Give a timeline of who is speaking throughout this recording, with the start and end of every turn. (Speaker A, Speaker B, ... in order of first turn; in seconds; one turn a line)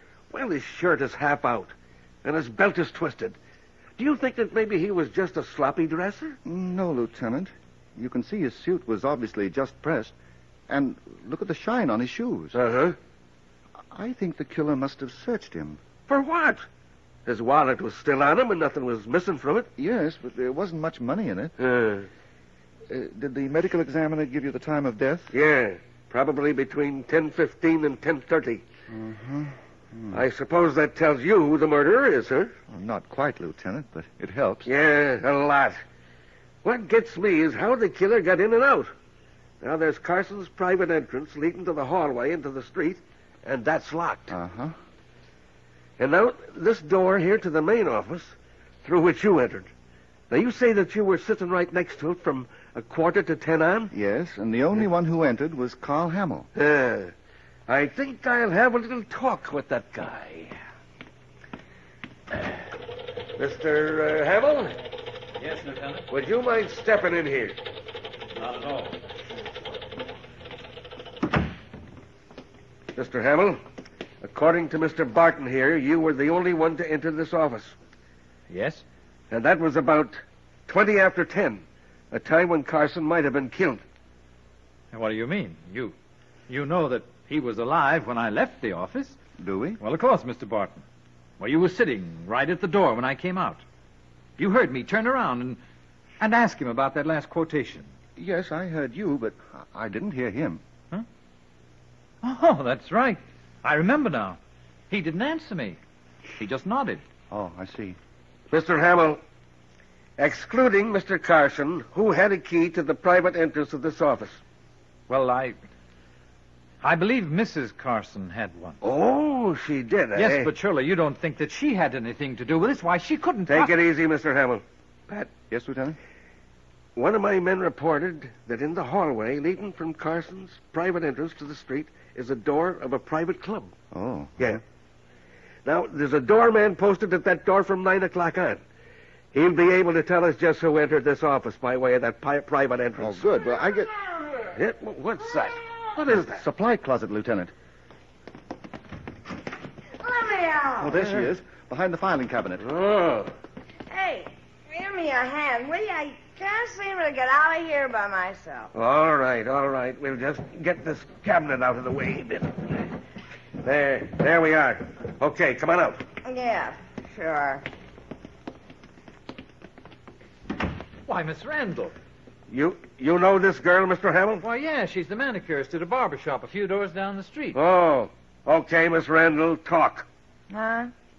Speaker A: 0.3-1.7
Speaker A: 2.2-3.4
Speaker A: 4.0-6.4
Speaker B: 6.4-10.1
Speaker B: 10.7-12.6
Speaker A: 12.5-13.0
Speaker B: 13.9-15.8
Speaker A: 16.1-16.6
Speaker A: 17.2-19.7
Speaker B: 19.8-21.5
Speaker A: 21.6-22.1
Speaker B: 22.9-25.3
Speaker A: 25.3-28.6
Speaker B: 28.9-30.2
Speaker A: 30.1-32.5
Speaker B: 32.7-34.7
Speaker A: 34.6-35.8
Speaker A: 36.6-38.9
Speaker A: 39.6-44.3
Speaker B: 44.3-44.7
Speaker A: 46.0-49.7
Speaker A: 50.3-53.9
Speaker B: 53.9-56.5
Speaker A: 56.5-57.1
Speaker A: 57.7-60.5
Speaker A: 63.4-64.7
Speaker C: 65.4-66.0
Speaker A: 66.1-67.6
Speaker C: 68.3-68.9
Speaker A: 72.9-73.6
Speaker A: 74.2-77.8
Speaker C: 78.5-78.8
Speaker A: 79.3-83.8
Speaker C: 84.9-85.9
Speaker C: 86.5-89.2
Speaker B: 89.4-89.8
Speaker C: 89.8-90.8
Speaker C: 91.4-93.6
Speaker C: 94.4-95.6
Speaker C: 96.2-97.9
Speaker B: 98.2-100.6
Speaker C: 102.2-104.4
Speaker C: 104.9-105.8
Speaker C: 106.4-107.0
Speaker B: 107.3-108.0
Speaker A: 108.5-109.2
Speaker A: 110.2-114.4
Speaker C: 115.1-115.6
Speaker C: 116.8-118.8
Speaker A: 118.8-120.5
Speaker C: 120.1-123.7
Speaker A: 123.5-125.3
Speaker B: 125.5-126.0
Speaker A: 127.0-133.7
Speaker B: 133.9-134.6
Speaker A: 135.6-138.6
Speaker A: 139.3-143.2
Speaker B: 143.0-143.9
Speaker A: 144.5-146.4
Speaker B: 146.2-147.5
Speaker D: 150.0-151.0
Speaker B: 150.8-152.7
Speaker A: 152.6-153.3
Speaker D: 153.9-158.7
Speaker A: 158.7-162.8
Speaker A: 163.6-166.0
Speaker D: 166.2-167.7
Speaker C: 171.1-171.9
Speaker A: 172.5-174.4
Speaker C: 174.4-177.6
Speaker A: 177.5-180.1
Speaker D: 180.5-180.9